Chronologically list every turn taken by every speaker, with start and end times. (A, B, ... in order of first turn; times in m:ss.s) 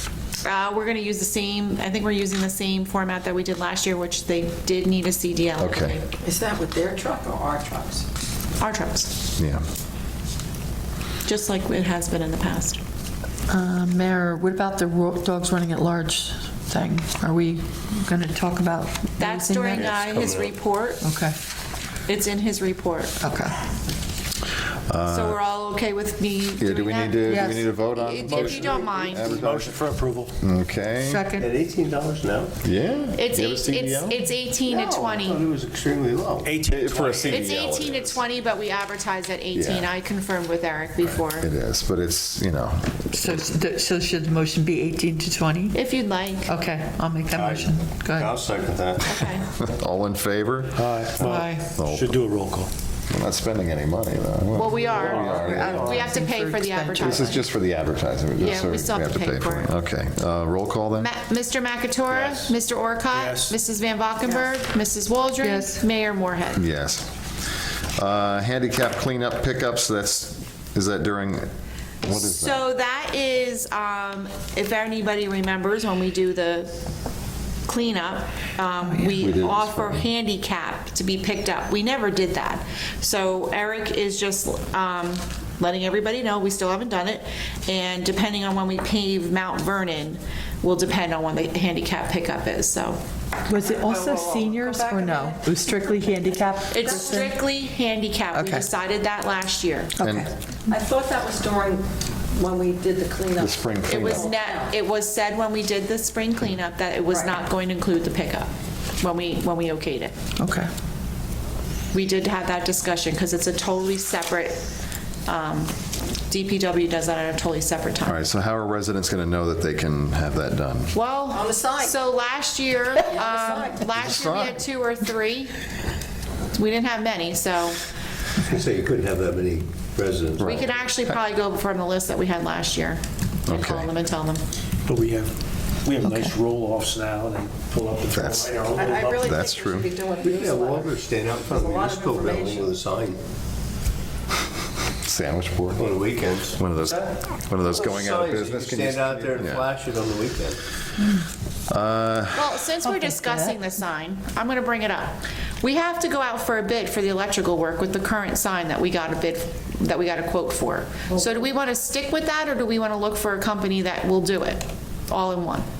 0:00.4-0:06.0 A
0:05.6-0:06.0 B
0:06.2-0:08.0 C
0:08.6-0:09.1 A
0:09.4-0:09.6 B
0:11.2-0:12.8 A
0:13.5-0:20.0 D
0:19.2-0:21.0 A
0:19.7-0:20.6 E
0:21.0-0:21.3 D
0:22.1-0:23.1 A
0:23.2-0:23.5 D
0:24.9-0:25.4 B
0:25.0-0:29.4 A
0:26.6-0:29.8 B
0:27.2-0:27.7 D
0:28.2-0:30.4 F
0:30.4-0:31.3 B
0:31.0-0:31.5 D
0:31.4-0:32.6 E
0:32.6-0:34.3 B
0:33.1-0:35.5 A
0:34.7-0:36.6 E
0:36.4-0:37.4 F
0:36.7-0:38.1 B
0:37.3-0:41.5 A
0:39.5-0:39.9 B
0:41.4-0:43.0 B
0:43.1-0:45.8 D
0:45.7-0:46.5 A
0:46.4-0:48.4 D
0:47.3-0:49.1 E
0:49.0-0:49.5 A
0:49.5-0:52.2 B
0:50.7-0:52.7 F
0:51.2-0:51.7 D
0:53.1-0:56.1 B
0:54.5-0:57.4 A
0:55.0-0:56.0 F
0:55.3-0:57.4 D
0:57.0-1:01.1 B
0:58.4-0:59.7 A
1:01.0-1:06.6 A
1:02.1-1:02.6 F
1:03.1-1:03.6 F
1:05.4-1:05.8 D
1:06.6-1:07.1 B
1:08.0-1:11.5 B
1:12.0-1:12.6 B
1:12.0-1:16.7 A
1:17.6-1:33.0 A
1:18.8-1:19.2 D
1:19.2-1:20.1 B
1:33.5-1:37.3 D
1:33.6-1:35.5 C
1:36.7-1:39.9 A
1:36.8-1:37.3 C
1:38.3-1:38.6 D
1:40.0-1:40.3 D
1:40.0-1:40.3 B
1:40.7-1:44.7 C
1:43.4-1:44.3 B
1:43.9-1:50.1 A
1:47.1-1:47.4 C
1:50.4-1:50.7 D
1:51.9-1:54.6 A
1:55.2-1:55.7 A
1:56.3-1:58.2 A
1:58.0-2:00.9 B
2:00.9-2:05.5 A
2:01.3-2:02.0 C
2:03.0-2:03.8 C
2:03.9-2:04.6 B
2:06.5-2:07.8 A
2:08.4-2:10.5 E
2:10.4-2:10.7 B
2:10.4-2:14.4 A
2:13.5-2:13.9 B
2:14.9-2:15.3 F
2:15.8-2:19.4 F
2:16.0-2:16.3 D
2:18.1-2:19.9 B
2:18.7-2:20.9 C
2:20.2-2:23.2 E
2:21.5-2:22.8 C
2:25.0-2:29.6 B
2:25.7-2:27.1 E
2:27.6-2:30.6 E
2:31.7-2:32.6 B
2:32.3-2:45.6 A
2:32.8-2:33.6 D
2:41.1-2:41.4 C